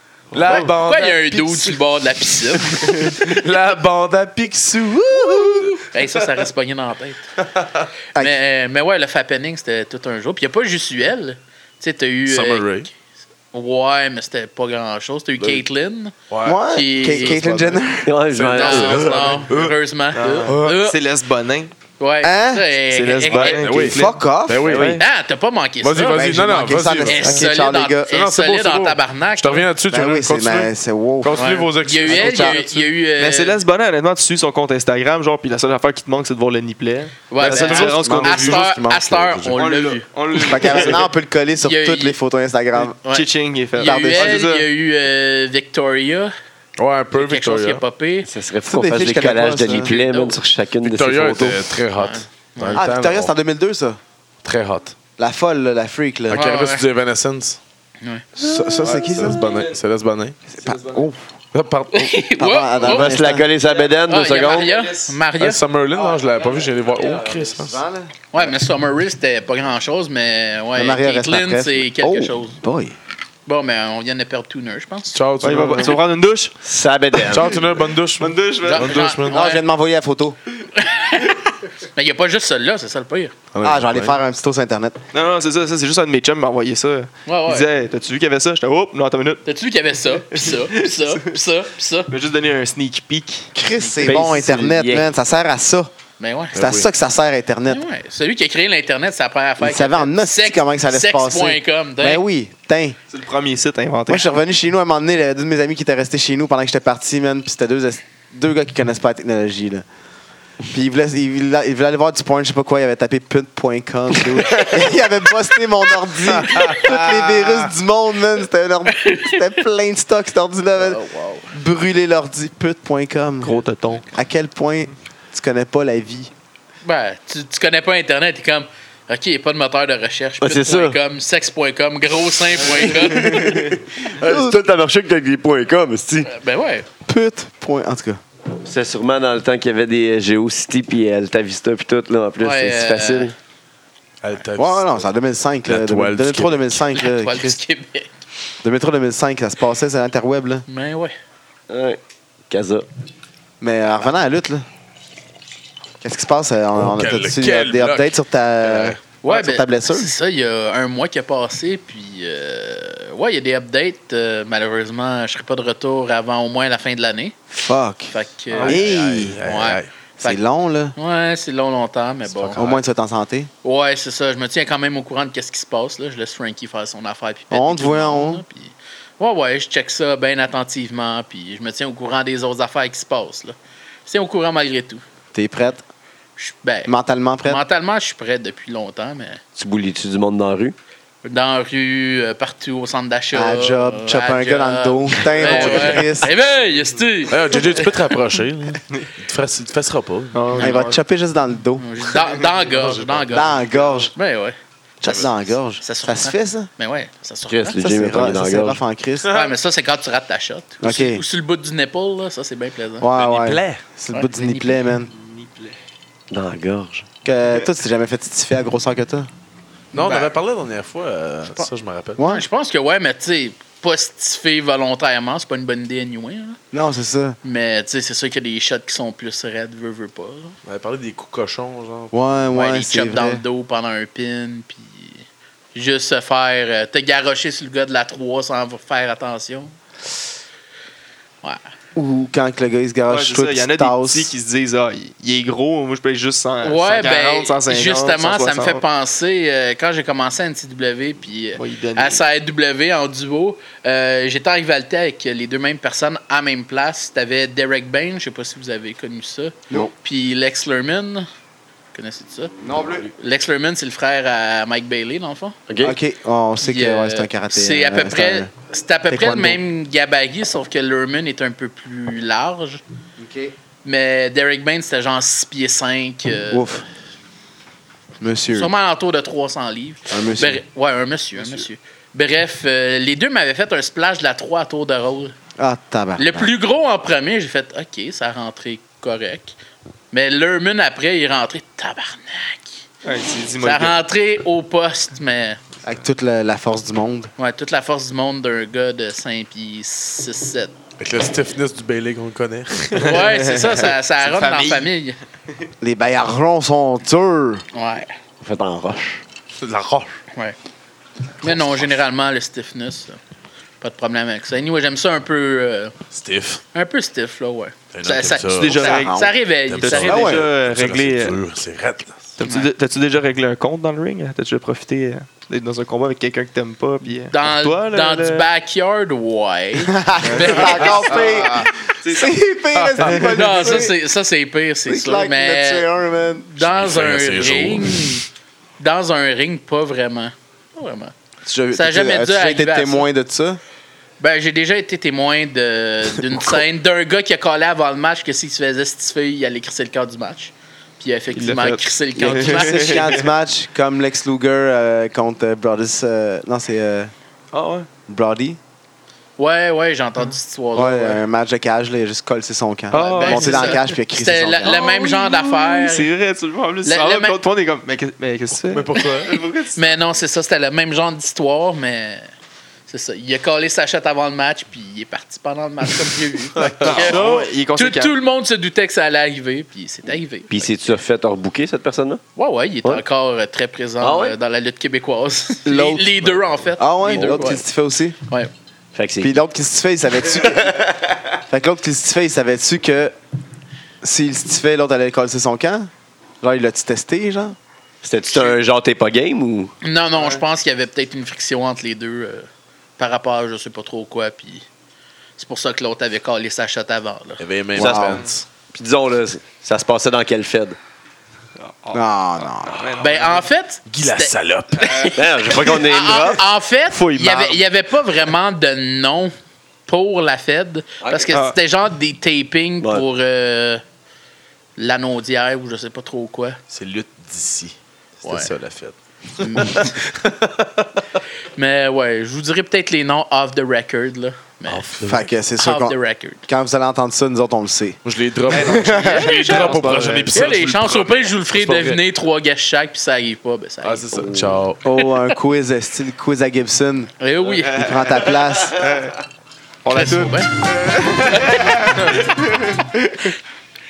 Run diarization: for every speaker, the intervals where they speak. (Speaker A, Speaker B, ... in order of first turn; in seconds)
Speaker A: 0.3-1.8, 2.7-5.9, 7.5-7.9, 12.3-12.9, 16.3-19.7, 20.4-20.8, 23.3-25.0, 25.8-27.5, 28.1-32.9, 37.5-39.7, 46.8-47.8, 50.8-53.3, 54.4-55.0, 56.3-57.6, 58.5-60.4, 61.5-62.3, 65.4-67.8, 75.1-76.0, 77.2-79.4, 83.5-84.2, 96.6-96.9, 116.4-117.5, 144.2-145.0, 145.6-146.8, 156.8-158.1, 158.6-159.0, 168.7-169.9, 172.3-172.8, 197.3-200.4, 202.7-203.4, 213.1-213.8, 219.9-222.2, 230.7-232.1, 301.0-303.1, 309.6-310.2, 316.1-316.6, 317.9-319.0, 319.7-322.3, 330.8-331.7, 332.8-333.2, 336.6-338.2, 368.6-369.4, 376.6-377.4, 407.4-408.4, 413.9-415.1, 426.7-430.9, 434.7-435.3, 438.0-442.0, 443.8-444.8
Speaker B: 0.3-0.7, 20.1-21.7, 22.9-25.0, 33.2-38.7, 39.5-41.1, 43.1-44.7, 58.8-59.8, 60.6-61.1, 63.6-65.2, 65.9-67.5, 75.4-76.5, 78.2-79.1, 85.1-89.4, 90.3-91.2, 92.1-94.0, 103.1-104.3, 123.4-124.1, 168.5-168.9, 200.3-201.0, 214.2-215.8, 243.1-248.8, 251.6-252.2, 281.4-281.6, 293.1-294.0, 302.9-304.9, 318.5-321.4, 322.4-328.5, 332.0-332.3, 351.3-353.3, 357.5-357.9, 362.9-363.9, 364.6-369.9, 376.8-378.1, 411.6-412.1, 412.6-413.4, 416.9-417.6, 438.5-440.4, 447.6-447.9, 448.7-449.2, 449.8-452.1, 452.8-453.2
Speaker C: 0.5-3.1, 5.7-7.3, 8.1-12.7, 13.5-16.1, 16.7-17.4, 18.6-21.0, 22.0-23.7, 25.0-26.4, 27.1-29.7, 31.4-33.6, 37.3-40.9, 41.6-42.2, 43.0-46.3, 47.1-48.3, 49.8-50.4, 52.0-52.8, 56.3-56.8, 58.0-58.3, 61.9-63.2, 64.0-65.6, 68.3-72.6, 73.5-75.2, 78.6-79.6, 80.7-83.3, 87.3-87.7, 89.5-92.1, 96.2-96.8, 97.7-102.2, 114.5-114.7, 118.9-119.4, 120.8-121.5, 126.8-133.6, 136.3-136.9, 142.4-143.3, 146.9-148.1, 150.7-151.1, 159.2-167.4, 168.1-170.4, 170.9-172.6, 173.6-185.0, 186.4-186.9, 187.4-189.4, 191.2-197.9, 200.6-200.9, 201.8-204.6, 205.8-207.8, 209.2-213.1, 214.1-214.7, 219.9-220.3, 222.2-226.6, 227.4-230.6, 232.5-239.7, 246.6-261.3, 261.9-262.5, 263.2-265.6, 266.6-272.8, 273.8-276.8, 278.5-285.3, 286.2-289.5, 290.1-292.8, 293.6-295.6, 297.4-300.7, 302.9-305.2, 307.7-308.1, 311.4-313.2, 313.8-315.9, 316.7-320.3, 322.4-322.7, 327.3-331.5, 333.1-335.9, 336.5-338.3, 338.8-341.1, 341.7-343.1, 344.2-353.2, 359.4-361.2, 363.0-366.1, 366.8-367.4, 369.7-372.3, 372.9-380.7, 382.4-387.6, 399.8-404.6, 405.4-407.4, 413.0-419.3, 419.9-423.8, 424.8-426.6, 428.2-428.5, 429.4-430.0, 431.6-434.9, 435.6-436.4, 439.1-439.7, 440.3-444.2, 447.2-448.1, 449.9-450.5, 451.2-452.0
Speaker D: 16.4-18.1, 22.2-22.6, 23.9-24.7, 26.1-28.1, 29.9-31.5, 32.0-32.6, 37.4-39.0, 40.3-43.0, 43.8-44.5, 48.7-49.9, 52.7-54.0, 55.2-56.4, 58.4-59.5, 60.5-61.2, 62.4-63.5, 67.6-68.1, 70.7-73.0, 79.3-80.4, 83.6-85.0, 93.5-95.9, 96.5-97.8, 99.6-103.0, 104.1-109.8, 110.7-126.3, 133.3-134.6, 137.1-138.2, 144.6-147.6, 148.6-150.6, 153.6-154.7, 156.0-160.1, 167.5-169.4, 170.2-170.9, 172.6-173.5, 177.5-178.4, 185.3-185.8, 186.9-187.6, 193.3-196.3, 200.6-201.9, 203.3-204.1, 205.0-206.7, 207.8-209.4, 210.8-211.2, 213.0-215.1, 217.2-219.3, 222.2-222.5, 226.7-227.4, 232.1-233.4, 241.9-244.3, 262.6-263.1, 265.8-268.5, 269.1-269.6, 273.2-273.5, 276.5-276.8, 278.2-278.7, 280.1-280.6, 285.6-286.5, 295.8-297.3, 305.8-307.6, 318.8-319.3, 320.1-320.5, 329.8-333.9, 334.9-336.5, 341.4-343.6, 352.2-357.1, 358.1-358.6, 360.7-364.8, 385.7-386.2, 386.8-388.2, 389.2-390.9, 391.5-393.1, 394.0-395.9, 396.4-397.6, 407.7-408.2, 411.9-412.9, 435.1-438.0, 438.5-439.3, 444.8-447.1, 447.7-448.8
Speaker E: 18.1-19.2, 24.6-25.0, 48.3-51.6, 62.8-64.7, 76.6-77.6, 94.0-95.1, 130.4-131.0, 132.9-136.3, 138.6-143.3, 151.7-152.0, 152.5-152.9, 189.6-190.7, 207.5-208.8, 216.3-217.1, 265.7-266.0, 308.4-309.2, 380.5-382.2, 384.0-384.4, 387.2-387.5, 388.9-389.3, 390.6-391.0, 398.0-399.7, 407.8-410.8, 415.1-416.4, 444.1-444.5